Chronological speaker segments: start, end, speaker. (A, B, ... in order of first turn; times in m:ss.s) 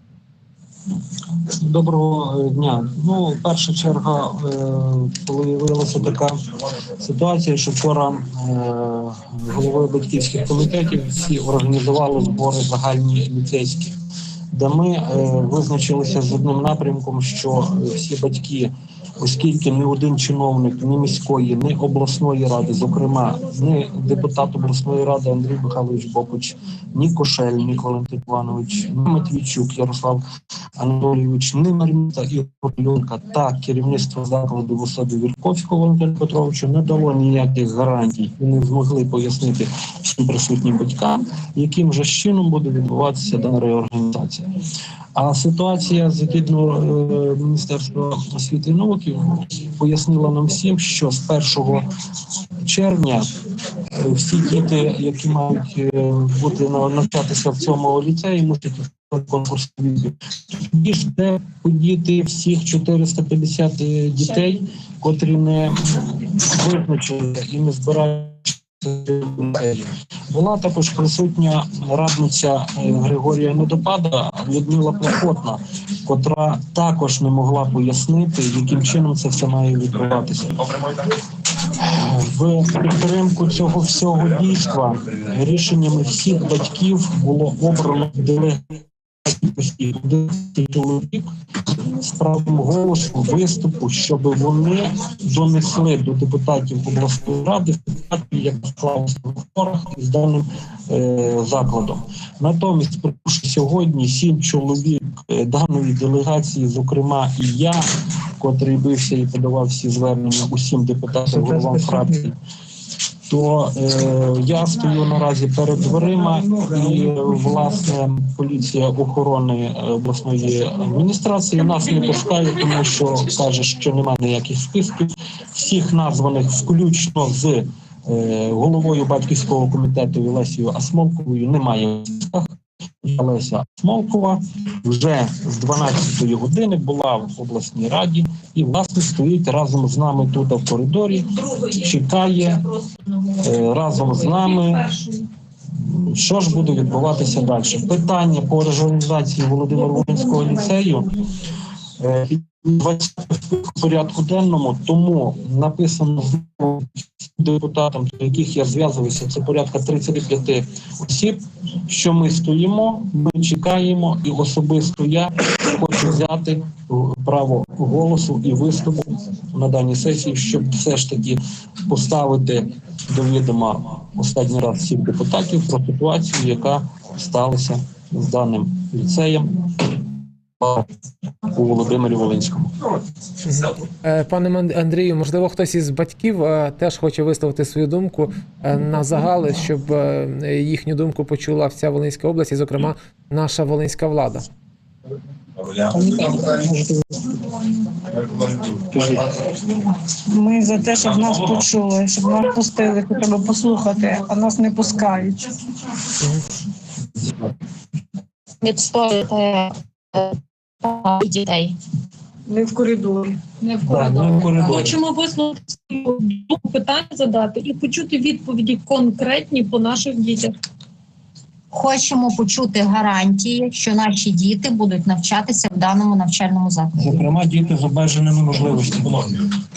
0:01.4-0:06.4 A
0:07.0-0:13.9 A
0:14.5-0:30.2 A
0:30.8-0:44.5 A
0:45.2-0:51.9 A
0:52.6-0:53.3 A
0:53.9-1:20.7 A
1:21.8-1:28.7 A
1:29.2-1:47.8 A
1:48.4-1:52.4 A
1:53.3-2:22.8 A
2:23.3-2:25.0 A
2:25.7-2:31.2 A
2:32.0-3:00.9 A
3:01.5-3:02.8 A
3:03.4-3:14.5 B
3:20.2-3:25.5 C
3:28.6-3:31.8 D
3:32.5-3:33.4 C
3:33.6-3:40.6 E
3:33.8-3:35.0 A
3:41.7-3:47.0 D
3:47.0-3:49.5 A